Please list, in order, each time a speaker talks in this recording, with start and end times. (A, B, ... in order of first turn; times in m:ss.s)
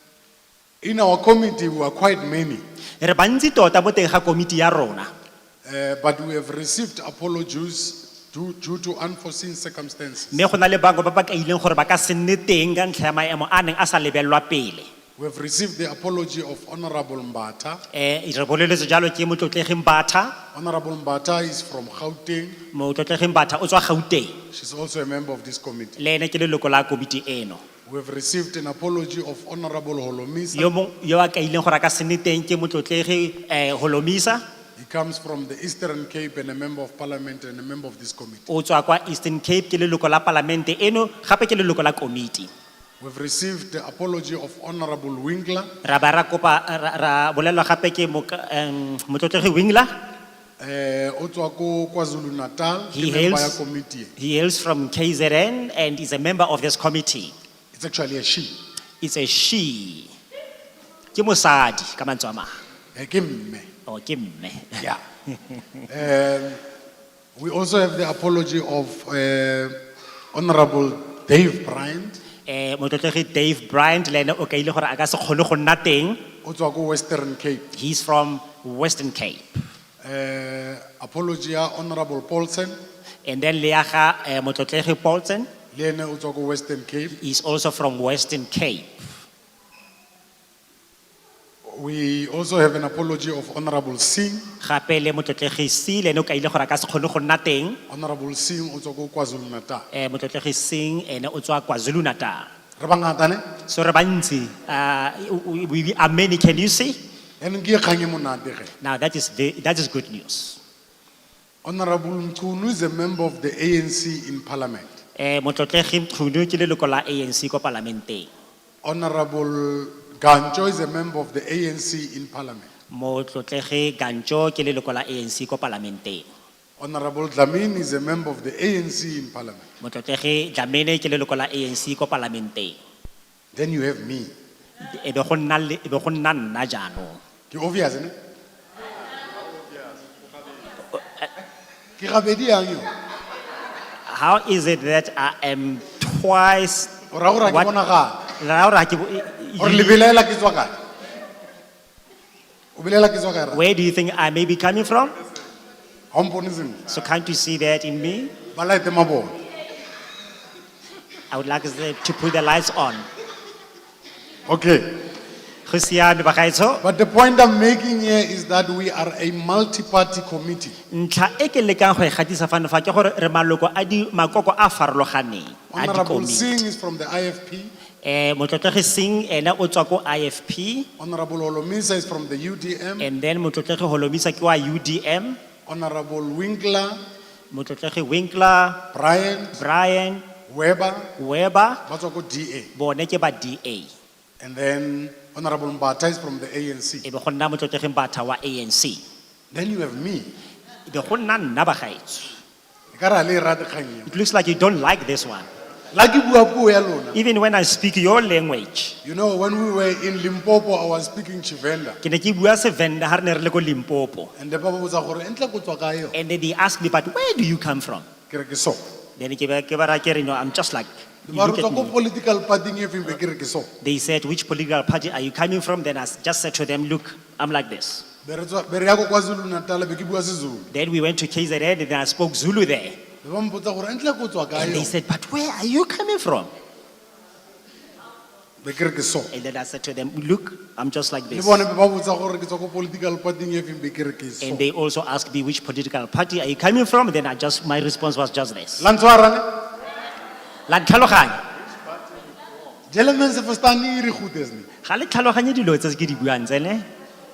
0:00.8-0:02.6 A
0:03.0-0:05.1 B
0:05.6-0:10.4 A
0:10.3-0:14.9 B
0:15.2-0:17.8 A
0:17.9-0:20.4 B
0:20.5-0:22.6 A
0:22.7-0:24.4 B
0:24.5-0:26.0 A
0:26.0-0:27.6 B
0:27.9-0:30.7 A
0:30.5-0:34.4 B
0:34.8-0:38.4 A
0:38.5-0:42.5 B
0:43.0-0:45.7 A
0:45.8-0:50.0 B
0:50.6-0:54.1 A
0:52.9-0:53.6 B
0:54.2-0:57.3 B
0:57.7-0:58.5 A
0:59.0-1:00.1 B
1:01.1-1:02.5 B
1:03.0-1:03.6 A
1:03.9-1:04.8 B
1:05.9-1:06.6 A
1:07.4-1:09.8 A
1:10.3-1:12.2 A
1:12.4-1:16.2 B
1:16.4-1:17.7 A
1:17.7-1:19.4 B
1:20.0-1:22.8 A
1:23.2-1:25.5 B
1:25.7-1:27.2 A
1:27.2-1:29.0 B
1:31.7-1:34.4 A
1:34.6-1:37.8 B
1:37.9-1:39.9 A
1:39.9-1:42.5 B
1:42.8-1:43.4 A
1:43.7-1:47.0 B
1:47.4-1:48.7 A
1:48.8-1:50.6 B
1:51.6-1:55.0 A
1:55.2-1:58.3 B
1:58.8-2:02.7 A
2:02.9-2:06.2 B
2:06.8-2:09.7 A
2:09.8-2:12.8 B
2:13.5-2:14.3 A
2:14.8-2:17.2 B
2:17.5-2:18.1 A
2:22.0-2:22.9 A
2:24.1-2:26.9 B
2:27.1-2:28.3 A
2:28.3-2:30.0 B
2:29.6-2:30.7 A
2:32.8-2:33.6 A
2:33.5-2:35.1 B
2:36.1-2:36.8 A
2:36.9-2:38.3 B
2:38.5-2:39.4 A
2:41.3-2:43.0 B
2:44.5-2:45.0 A
2:45.7-2:46.8 B
2:46.8-2:50.7 A
2:50.9-2:56.6 B
2:55.7-2:57.7 A
2:58.0-3:00.9 B
3:01.0-3:03.1 A
3:03.0-3:05.4 B
3:05.7-3:07.0 A
3:07.5-3:08.9 B
3:08.9-3:09.6 A
3:09.6-3:10.2 B
3:10.5-3:11.1 A
3:11.2-3:11.8 B
3:11.9-3:12.7 A
3:12.8-3:13.9 B
3:14.4-3:17.0 A
3:17.0-3:19.0 B
3:19.5-3:20.3 A
3:20.9-3:22.3 B
3:22.9-3:24.1 A
3:24.1-3:25.5 B
3:25.9-3:27.2 A
3:27.1-3:29.0 B
3:29.0-3:32.0 A
3:32.0-3:34.3 B
3:34.4-3:36.2 A
3:36.1-3:38.1 B
3:38.3-3:38.8 A
3:39.2-3:41.9 B
3:41.3-3:43.7 A
3:43.8-3:48.0 B
3:48.2-3:50.7 A
3:50.7-3:53.0 B
3:53.2-3:54.9 A
3:54.5-3:56.5 B
3:58.6-3:59.3 A
3:59.3-4:01.7 B
4:01.3-4:04.7 A
4:04.4-4:08.9 B
4:08.8-4:09.4 A
4:10.7-4:11.4 B
4:12.9-4:14.6 A
4:14.8-4:16.8 B